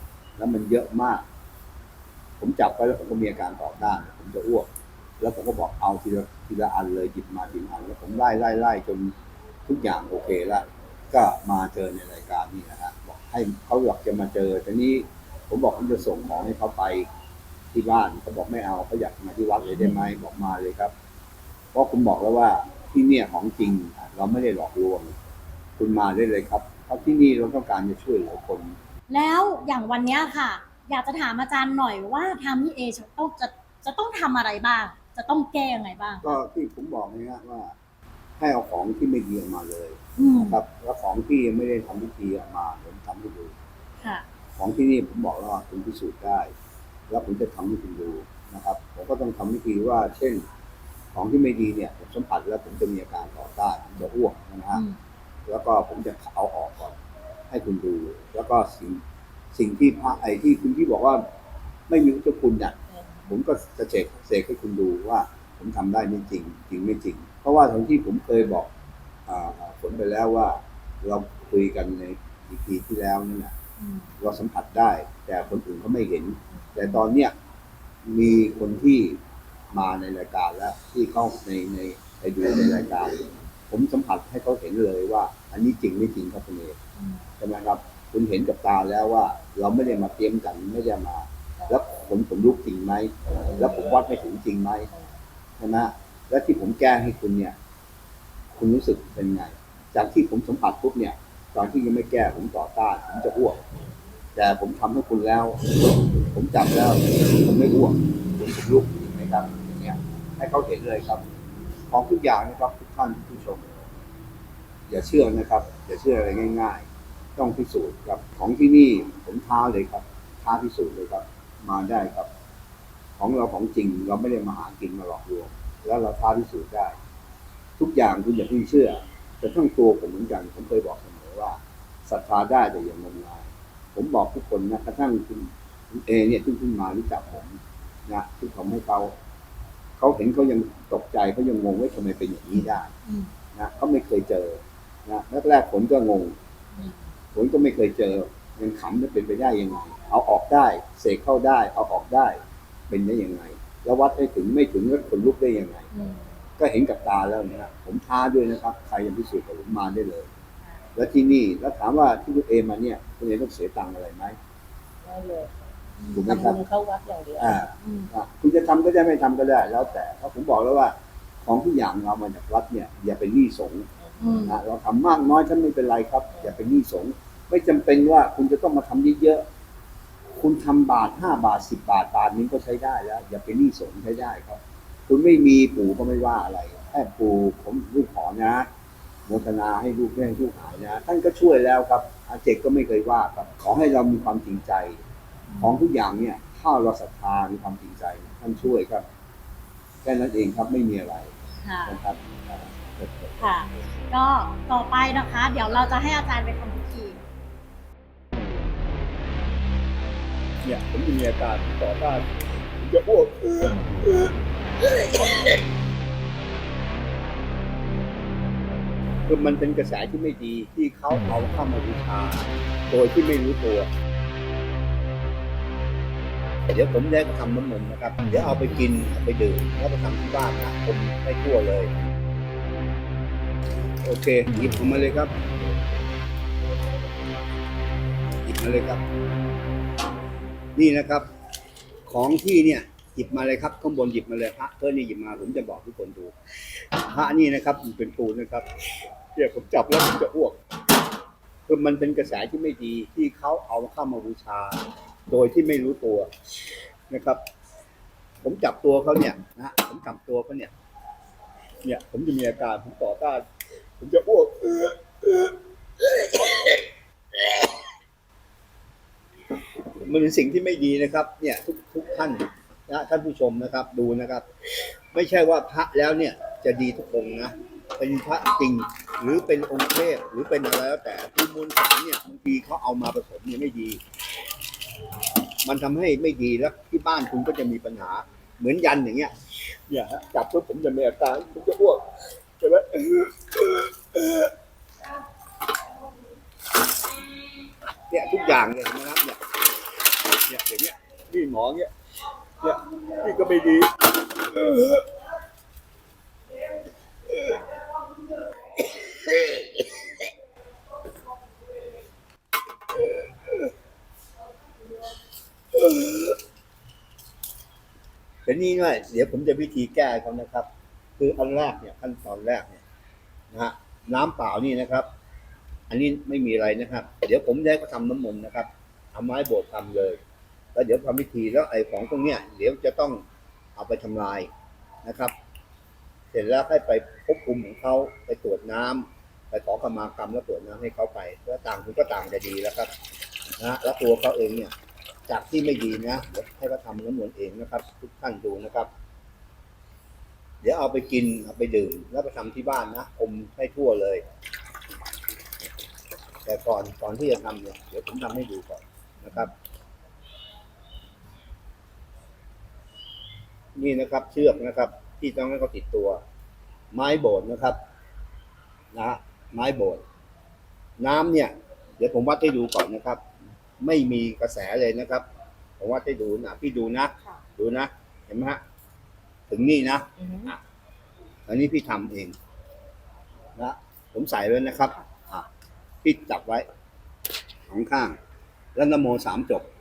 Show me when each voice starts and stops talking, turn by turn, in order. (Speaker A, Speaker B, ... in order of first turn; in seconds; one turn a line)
Speaker A: 0.4-1.2
Speaker A: 2.4-4.7
Speaker A: 5.2-9.1
Speaker A: 9.7-17.1
Speaker A: 17.7-20.9
Speaker A: 21.7-25.1
Speaker A: 25.8-28.8
Speaker B: 29.1-36.4
Speaker A: 36.2-37.7
Speaker A: 38.4-43.5
Speaker B: 40.2-40.6
Speaker A: 44.6-46.5
Speaker A: 47.1-50.5
Speaker A: 51.1-54.8
Speaker B: 54.7-55.0
Speaker A: 55.5-57.0
Speaker A: 57.5-59.0
Speaker A: 59.5-61.2
Speaker A: 61.9-62.8
Speaker A: 63.3-68.7
Speaker A: 69.3-73.5
Speaker B: 73.8-74.1
Speaker A: 74.2-77.3
Speaker A: 78.0-79.2
Speaker A: 79.7-86.8
Speaker A: 87.4-94.9
Speaker A: 95.6-97.5
Speaker A: 98.5-103.6
Speaker A: 104.3-111.2
Speaker A: 111.9-113.9
Speaker A: 114.9-122.3
Speaker A: 123.2-127.0
Speaker A: 127.8-139.1
Speaker A: 140.0-142.9
Speaker B: 143.0-143.3
Speaker A: 143.5-146.3
Speaker B: 146.7-147.0
Speaker A: 147.3-155.9
Speaker B: 155.9-156.3
Speaker A: 156.6-160.3
Speaker A: 160.9-164.4
Speaker C: 165.0-165.6
Speaker B: 166.0-166.3
Speaker A: 166.1-166.6
Speaker C: 166.2-167.6
Speaker A: 167.4-173.9
Speaker B: 167.8-168.1
Speaker C: 174.0-174.3
Speaker B: 174.2-174.6
Speaker A: 174.4-179.4
Speaker A: 180.4-188.7
Speaker A: 189.3-195.0
Speaker B: 195.5-195.8
Speaker A: 195.6-199.1
Speaker A: 200.0-201.3
Speaker B: 201.6-202.0
Speaker A: 201.8-203.5
Speaker B: 203.4-207.2
Speaker A: 210.6-212.2
Speaker A: 212.8-215.4
Speaker A: 219.3-223.9
Speaker A: 226.7-231.9
Speaker A: 234.0-235.3
Speaker A: 238.4-239.0
Speaker A: 240.8-241.3
Speaker A: 242.1-246.3
Speaker A: 247.0-248.7
Speaker A: 249.3-250.6
Speaker A: 251.7-256.3
Speaker A: 257.1-257.4
Speaker A: 258.4-260.7
Speaker A: 261.8-263.4
Speaker A: 264.0-266.8
Speaker A: 267.4-267.7
Speaker A: 270.0-274.4
Speaker A: 275.1-284.0
Speaker A: 285.6-294.5
Speaker A: 298.1-299.5
Speaker A: 300.4-301.9
Speaker A: 302.6-305.1
Speaker A: 307.3-307.8
Speaker A: 308.8-310.2
Speaker A: 315.7-316.3
Speaker A: 318.4-322.8
Speaker A: 323.5-325.1
Speaker A: 325.9-330.2
Speaker A: 330.7-333.2
Speaker A: 333.8-334.5
Speaker A: 335.0-335.3
Speaker A: 336.3-342.9
Speaker A: 343.6-344.7
Speaker A: 345.3-348.9
Speaker A: 350.6-354.2
Speaker A: 356.4-359.5
Speaker A: 363.7-366.2
Speaker A: 366.9-367.8
Speaker A: 368.9-370.0
Speaker A: 371.0-373.2
Speaker A: 373.8-375.2
Speaker A: 375.8-378.6
Speaker A: 379.5-380.6
Speaker C: 380.2-380.5
Speaker A: 381.5-382.3
Speaker A: 383.6-385.5
Speaker A: 386.0-386.7
Speaker A: 387.7-388.2
Speaker A: 388.7-389.7